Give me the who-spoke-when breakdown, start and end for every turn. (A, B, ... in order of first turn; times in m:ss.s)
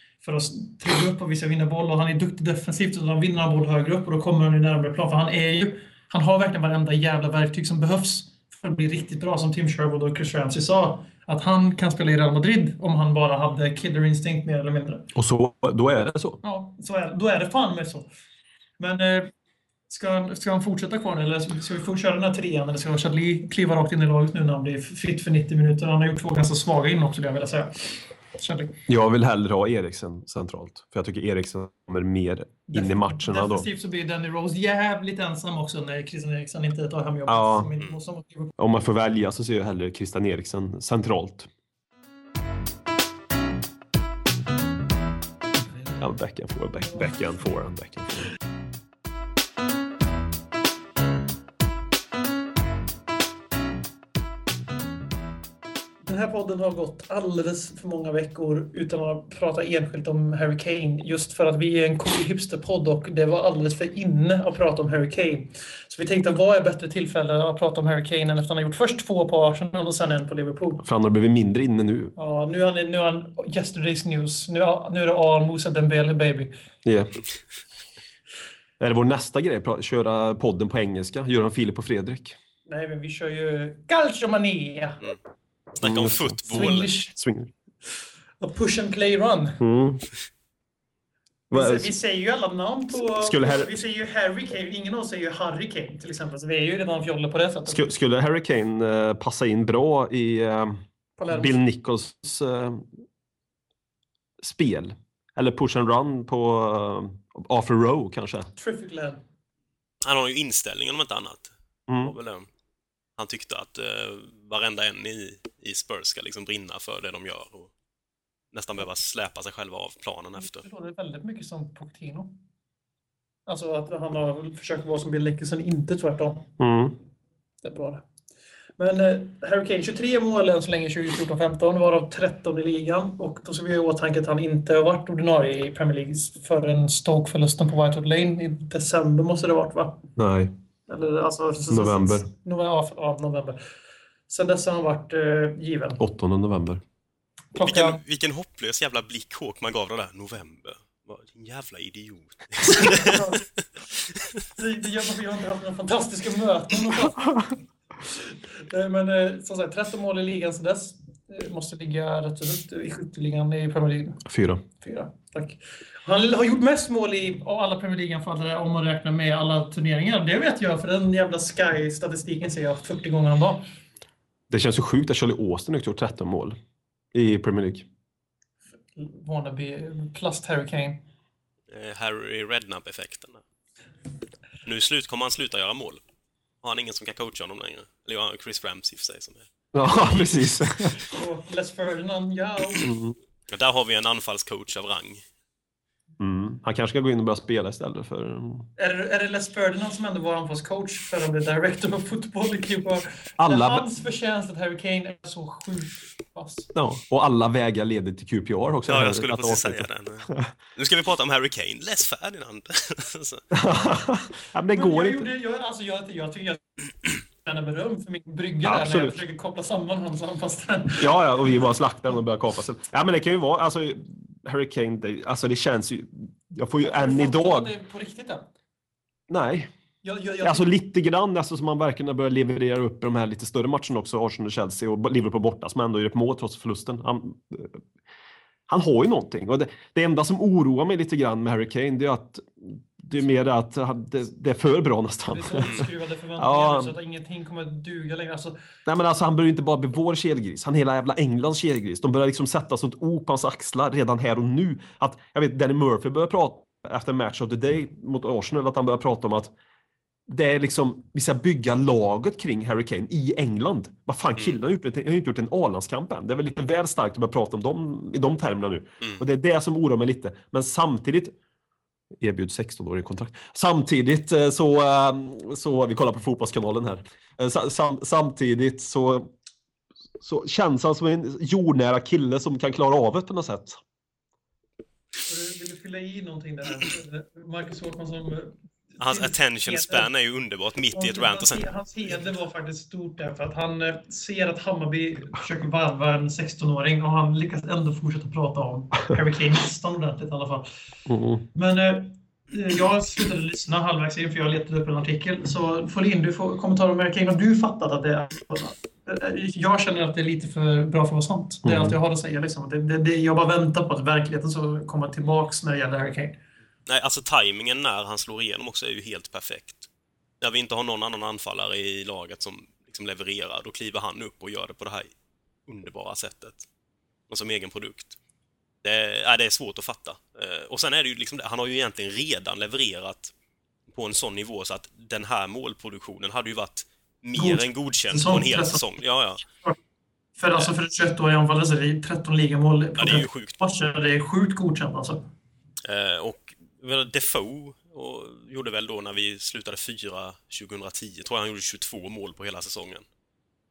0:00.2-0:15.1 A
0:15.2-0:16.4 B
0:16.4-0:18.1 A
0:18.8-0:19.3 A
0:19.9-0:28.8 A
0:28.9-0:33.7 B
0:32.7-0:38.5 A
0:37.3-0:37.7 B
0:38.6-0:41.5 B
0:46.0-0:48.3 B
0:56.0-1:10.8 A
1:10.8-1:12.1 B
1:12.2-1:16.5 A
1:16.8-1:17.2 B
1:18.8-1:22.4 B
1:22.7-1:25.1 A
1:25.8-1:26.9 C
1:25.8-1:27.5 B
1:26.5-1:27.2 A
1:28.4-1:29.6 A
1:29.6-1:30.0 B
1:31.5-1:31.9 B
1:31.5-1:37.8 A
1:33.2-1:33.8 B
1:37.7-1:42.9 B
1:41.2-1:41.6 A
1:44.4-1:48.5 B
1:48.6-1:49.2 A
1:50.0-1:52.5 C
1:51.9-1:52.1 B
1:53.2-1:57.7 C
1:58.5-2:00.6 C
2:00.4-2:02.4 A
2:03.5-2:06.5 A
2:06.6-2:07.0 B
2:07.6-2:08.0 A
2:08.8-2:20.0 A
2:20.2-2:20.5 B
2:20.9-2:23.6 A
2:21.7-2:22.3 B
2:24.3-2:26.0 A
2:26.0-2:26.8 B
2:27.6-2:28.0 A
2:27.7-2:33.2 C
2:32.8-2:33.4 A
2:34.6-2:37.4 A
2:38.1-2:44.3 A
2:44.3-2:44.6 B
2:44.8-2:53.7 A
2:54.5-2:56.6 B
2:57.1-2:57.9 B
2:59.0-3:01.0 A
3:01.7-3:03.4 C
3:04.6-3:06.0 C
3:06.6-3:09.5 C
3:09.7-3:11.0 B
3:11.0-3:12.9 A
3:12.8-3:13.2 B
3:13.5-3:15.2 C
3:16.2-3:18.7 B
3:18.8-3:26.7 A
3:23.4-3:23.9 B
3:26.8-3:30.5 B
3:28.9-3:33.4 C
3:33.5-3:35.3 B
3:34.7-3:36.6 A
3:37.4-3:41.2 A
3:38.6-3:39.2 B
3:41.0-3:47.7 B
3:46.8-3:48.5 A
3:49.3-3:49.7 B
3:50.0-3:50.7 A
3:50.4-3:57.8 B
3:58.7-4:05.9 B
4:05.3-4:08.6 A
4:06.4-4:07.0 B
4:08.9-4:19.5 B
4:20.3-4:31.3 B
4:32.2-4:39.3 B
4:40.2-4:43.8 B
4:45.3-4:50.1 A
4:49.0-4:51.7 C
4:50.9-5:00.7 A
5:01.1-5:01.4 B
5:01.6-5:16.4 A
5:11.6-5:12.0 B
5:16.9-5:19.9 C
5:20.4-5:25.1 C
5:25.7-5:26.7 C
5:27.3-5:28.2 C
5:28.8-5:33.3 C
5:33.9-5:39.4 C
5:37.4-5:38.8 A
5:40.4-5:45.2 A
5:43.0-5:43.6 C
5:45.8-5:53.0 C